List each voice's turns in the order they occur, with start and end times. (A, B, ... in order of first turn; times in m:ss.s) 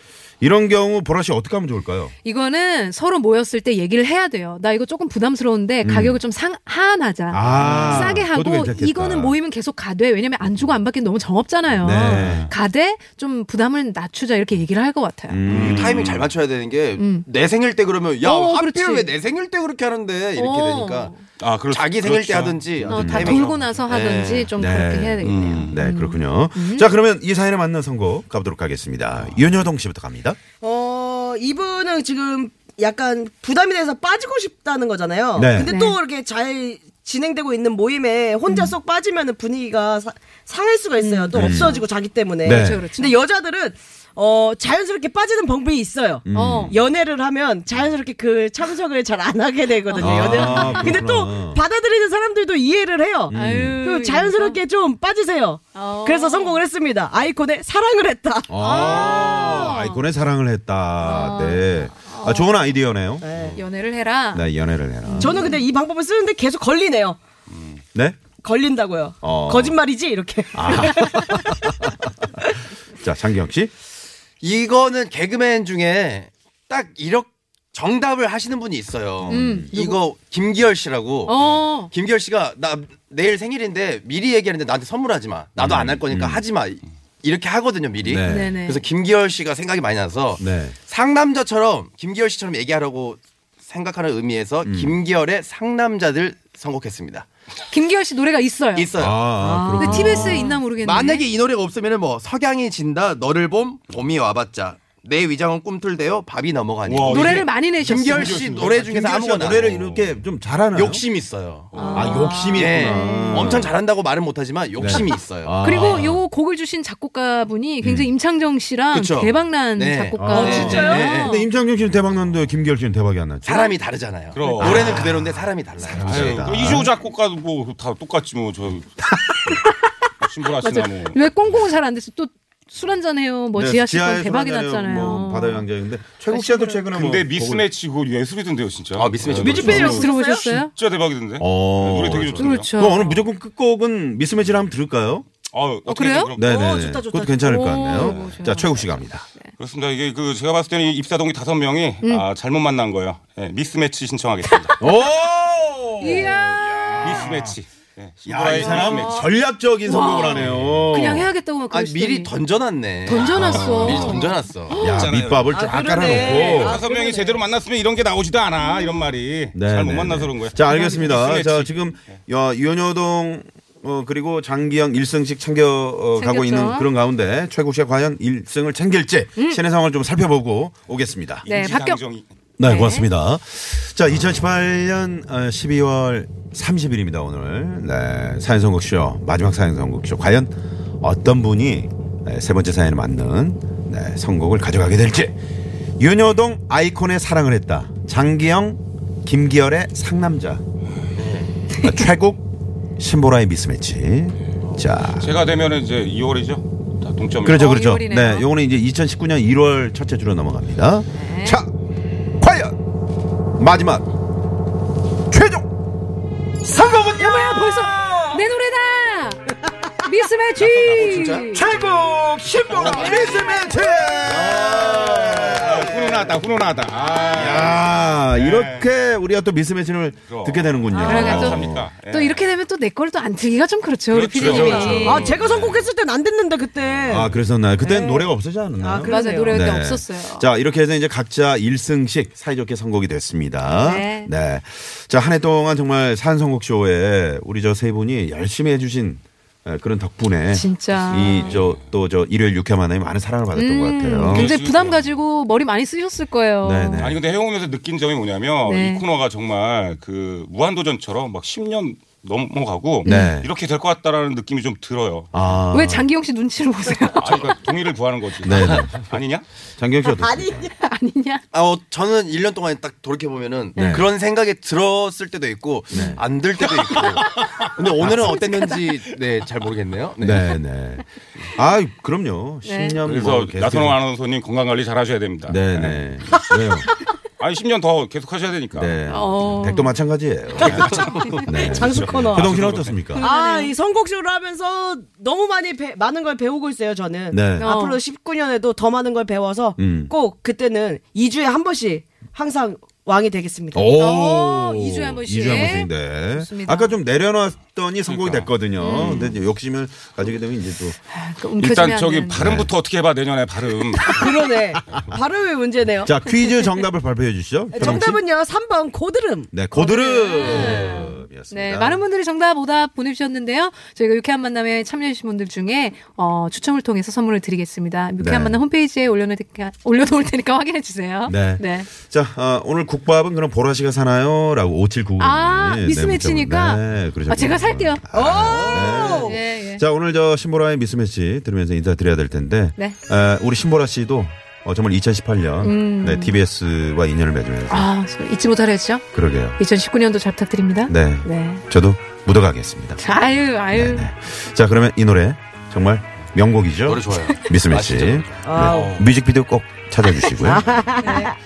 0:00.4-0:02.1 A
0:02.2-0:15.5 B
0:05.8-0:06.2 A
0:07.3-0:09.4 A
0:07.4-0:08.2 C
0:11.8-0:12.5 A
0:12.1-0:12.5 C
0:15.3-0:16.2 A
0:15.5-0:16.3 C
0:15.5-0:21.1 D
0:17.0-0:17.2 B
0:18.2-0:19.1 B
0:20.4-0:21.2 B
0:21.4-0:23.7 C
0:21.7-0:24.5 D
0:22.9-0:26.9 B
0:22.9-0:23.4 A
0:24.6-0:30.4 A
0:25.2-0:25.8 C
0:29.2-0:29.5 C
0:30.6-0:59.0 E
0:35.3-0:35.7 A
0:35.6-0:36.0 B
0:38.5-0:38.7 B
0:41.0-0:41.8 B
0:41.3-0:41.8 A
0:42.4-0:42.8 A
0:42.4-0:43.2 B
0:46.2-0:46.8 A
0:46.3-0:46.8 B
0:49.8-0:51.0 B
0:50.0-0:51.6 A
0:53.3-0:53.8 A
0:53.3-0:54.6 B
0:55.7-0:56.6 B
0:58.5-1:03.5 A
0:58.6-1:00.0 B
1:01.0-1:02.8 B
1:03.2-1:03.6 E
1:03.5-1:04.4 B
1:04.3-1:05.4 A
1:05.0-1:05.6 B
1:05.2-1:07.2 E
1:07.5-1:07.8 C
1:07.9-1:08.2 A
1:08.4-1:11.8 E
1:09.2-1:09.8 A
1:10.5-1:12.1 A
1:12.9-1:13.7 A
1:14.4-1:37.3 D
1:19.2-1:19.7 A
1:19.3-1:20.0 B
1:21.2-1:21.9 B
1:25.6-1:26.4 A
1:28.0-1:28.5 A
1:28.2-1:28.8 B
1:30.4-1:30.8 A
1:34.6-1:34.9 A
1:37.7-1:41.2 B
1:38.7-1:49.8 D
1:39.0-1:40.5 A
1:46.8-1:50.2 C
1:47.1-1:48.6 B
1:48.9-1:51.0 A
1:50.7-1:51.9 D
1:51.7-1:52.3 C
1:51.7-1:53.7 B
1:51.9-1:53.7 A
1:52.5-1:56.1 D
1:54.8-1:56.2 A
1:55.6-2:01.5 B
1:57.8-1:58.1 A
1:58.9-2:01.4 D
2:00.2-2:03.7 A
2:00.3-2:01.0 E
2:03.4-2:06.4 D
2:04.3-2:05.1 C
2:04.6-2:06.9 A
2:06.0-2:09.0 C
2:09.0-2:09.5 A
2:09.5-2:09.9 B
2:10.2-2:11.6 C
2:10.6-2:16.8 B
2:13.5-2:17.6 A
2:16.9-2:22.7 C
2:19.0-2:19.8 D
2:19.3-2:20.6 E
2:19.4-2:19.8 A
2:19.6-2:20.7 B
2:21.4-2:25.2 A
2:21.8-2:22.6 D
2:22.4-2:23.2 B
2:25.5-2:26.8 C
2:25.9-2:26.3 B
2:26.4-2:29.2 A
2:26.4-2:27.5 E
2:27.4-2:29.5 B
2:27.9-2:28.3 C
2:29.6-2:34.8 C
2:34.5-2:34.8 B
2:34.8-2:37.5 A
2:36.0-2:37.1 B
2:37.0-2:39.3 C
2:38.2-2:41.3 A
2:38.7-2:39.3 B
2:39.8-2:42.3 B
2:40.3-2:40.8 C
2:41.7-2:45.5 D
2:43.0-2:45.1 B
2:43.3-2:44.2 A
2:44.7-2:46.8 A
2:45.5-2:47.4 E
2:46.0-2:52.2 C
2:49.5-3:01.4 A
2:50.7-2:51.1 B
2:56.2-2:56.9 B
3:01.4-3:02.3 C
3:01.4-3:02.0 B
3:02.6-3:15.3 A
3:02.6-3:03.1 B
3:16.0-3:20.6 A
3:21.2-3:21.5 D
3:21.8-3:22.1 B
3:21.8-3:22.4 A
3:23.0-3:25.4 A
3:24.6-3:24.9 D
3:25.0-3:27.6 C
3:27.4-3:31.7 A
3:27.5-3:28.5 B
3:31.1-3:31.6 B
3:32.4-3:32.7 A
3:33.6-3:34.0 A
3:35.3-3:35.6 A
3:36.6-3:38.4 A
3:36.9-3:41.7 B
3:40.6-3:41.7 D
3:41.5-3:46.4 A
3:42.6-3:43.4 D
3:42.6-3:43.3 C
3:42.8-3:43.8 B
3:44.2-3:45.4 D
3:45.2-3:48.9 C
3:47.3-3:51.9 A
3:50.3-3:52.4 C
3:50.9-3:55.3 B
3:54.1-3:55.8 C
3:54.4-3:55.3 A
3:54.4-3:59.6 E
3:57.1-4:14.5 A
3:59.0-4:00.5 B
4:03.7-4:04.3 B
4:10.5-4:11.6 B
4:11.1-4:11.8 C
4:13.5-4:17.1 B
4:14.3-4:15.1 C
4:16.6-4:17.2 A
4:17.0-4:25.3 C
4:18.6-4:19.0 B
4:23.0-4:23.4 B
4:23.0-4:23.5 A
4:25.3-4:26.1 A
4:25.7-4:27.6 B
4:27.1-4:29.4 C
4:28.4-4:29.0 A
4:29.8-4:30.7 A
4:30.0-4:30.7 E
4:30.8-4:31.4 B
4:31.5-4:40.4 D
4:33.8-4:34.0 B
4:33.8-4:34.0 A
4:35.9-4:36.2 B
4:35.9-4:36.2 A
4:36.9-4:39.2 B
4:38.0-4:38.3 A
4:40.2-4:44.0 A
4:42.6-4:43.0 B
4:43.0-4:46.1 C
4:45.5-4:46.9 A
4:47.4-4:49.0 C
4:48.7-4:53.2 A
4:49.1-4:49.9 B
4:50.6-4:53.0 C
4:50.6-4:52.5 E
4:51.2-4:51.7 B
4:53.1-4:53.7 B
4:53.2-5:03.9 E
4:57.3-4:57.7 A
4:57.6-4:58.0 B
4:59.8-5:00.1 A
5:03.7-5:11.0 A
5:04.0-5:07.0 B
5:08.1-5:09.3 C
5:08.8-5:09.4 B
5:11.1-5:12.5 B
5:11.6-5:14.2 C
5:12.4-5:12.7 A
5:14.0-5:16.7 E
5:16.0-5:18.2 A
5:17.7-5:21.0 E
5:17.8-5:18.1 B
5:19.5-5:22.0 A
5:20.3-5:31.9 B
5:28.2-5:28.6 A
5:31.2-5:47.9 A
5:35.2-5:39.8 B
5:38.1-5:39.4 E
5:45.6-5:46.4 B
5:47.7-5:51.6 B
5:49.1-5:49.6 A
5:50.9-5:53.0 A
5:53.0-5:54.1 B
5:53.7-6:00.8 A
5:56.8-5:58.6 D
5:58.4-5:59.0 E
5:58.6-5:59.1 C
6:00.4-6:01.4 E
6:01.0-6:01.3 B